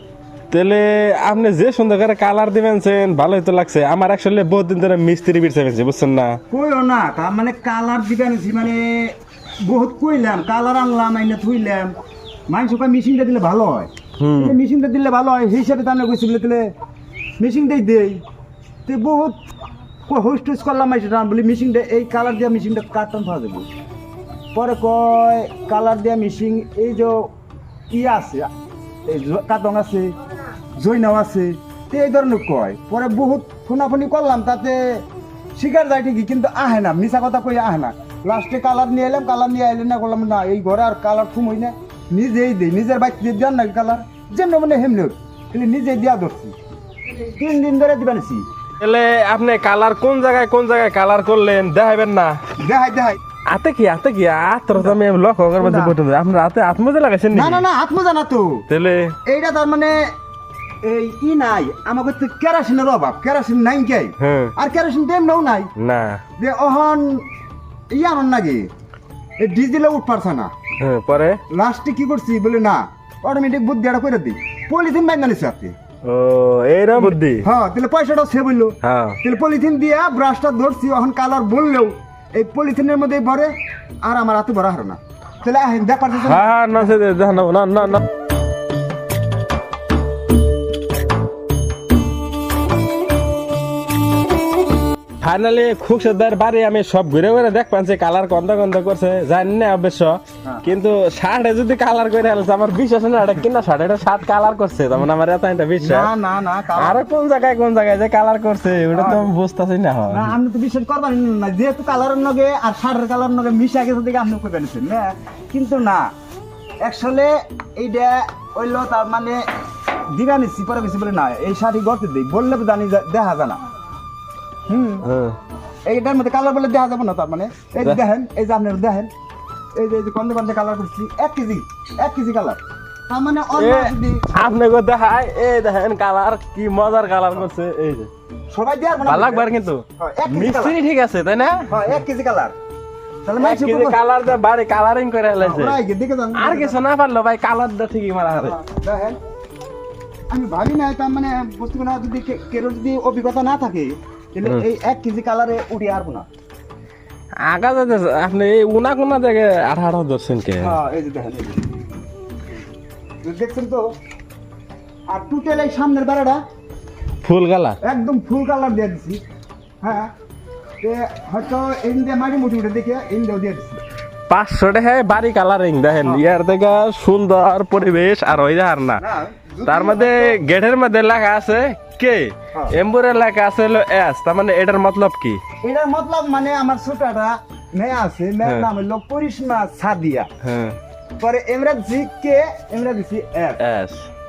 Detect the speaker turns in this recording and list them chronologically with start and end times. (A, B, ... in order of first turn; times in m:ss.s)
0:00.5-0:06.4 A
0:06.5-0:11.9 B
0:12.5-0:16.7 B
0:14.2-0:14.6 A
0:17.4-0:18.2 B
0:18.8-0:19.4 B
0:20.1-0:23.7 B
0:24.5-0:27.3 B
0:27.9-0:28.5 B
0:29.0-0:30.1 B
0:30.8-0:35.0 B
0:35.6-0:46.5 B
0:47.2-0:48.4 B
0:48.8-0:52.4 A
0:52.6-0:53.2 B
0:53.5-0:57.6 A
0:55.6-0:56.0 B
0:57.3-0:58.6 B
0:58.7-0:59.2 A
0:59.2-1:00.0 B
1:00.8-1:05.7 B
1:04.2-1:04.5 A
1:05.8-1:06.2 A
1:06.4-1:07.2 B
1:07.9-1:08.7 B
1:09.4-1:10.5 B
1:10.8-1:11.4 A
1:11.5-1:15.7 B
1:16.0-1:17.4 A
1:17.0-1:26.9 B
1:18.8-1:19.2 A
1:26.1-1:28.0 A
1:35.2-1:46.1 A
1:45.8-1:47.0 B
1:46.7-1:50.3 A
1:48.9-1:49.3 B
1:50.1-1:56.1 B
1:56.8-1:59.4 B
2:00.1-2:03.6 B
2:04.7-2:05.0 B
2:05.0-2:05.4 A
2:05.8-2:09.1 B
2:09.7-2:14.5 B
2:13.6-2:18.1 A
2:18.5-2:20.8 B
2:19.0-2:21.7 A
2:21.7-2:22.5 B
2:23.2-2:24.0 B
2:23.4-2:25.8 A
2:25.4-2:26.8 B
2:26.3-2:28.6 A
2:28.4-2:29.2 B
2:30.3-2:36.3 B
2:37.4-2:40.8 A
2:40.6-2:41.6 B
2:43.2-2:43.8 B
2:45.1-2:46.4 B
2:47.2-2:47.8 A
2:47.8-2:49.2 B
2:49.8-2:50.1 B
2:50.8-2:53.8 B
2:54.3-2:59.0 A
2:59.0-3:00.4 B
2:59.7-3:05.4 A
3:05.6-3:10.3 B
3:10.4-3:10.8 A
3:11.2-3:13.6 B
3:13.6-3:14.1 A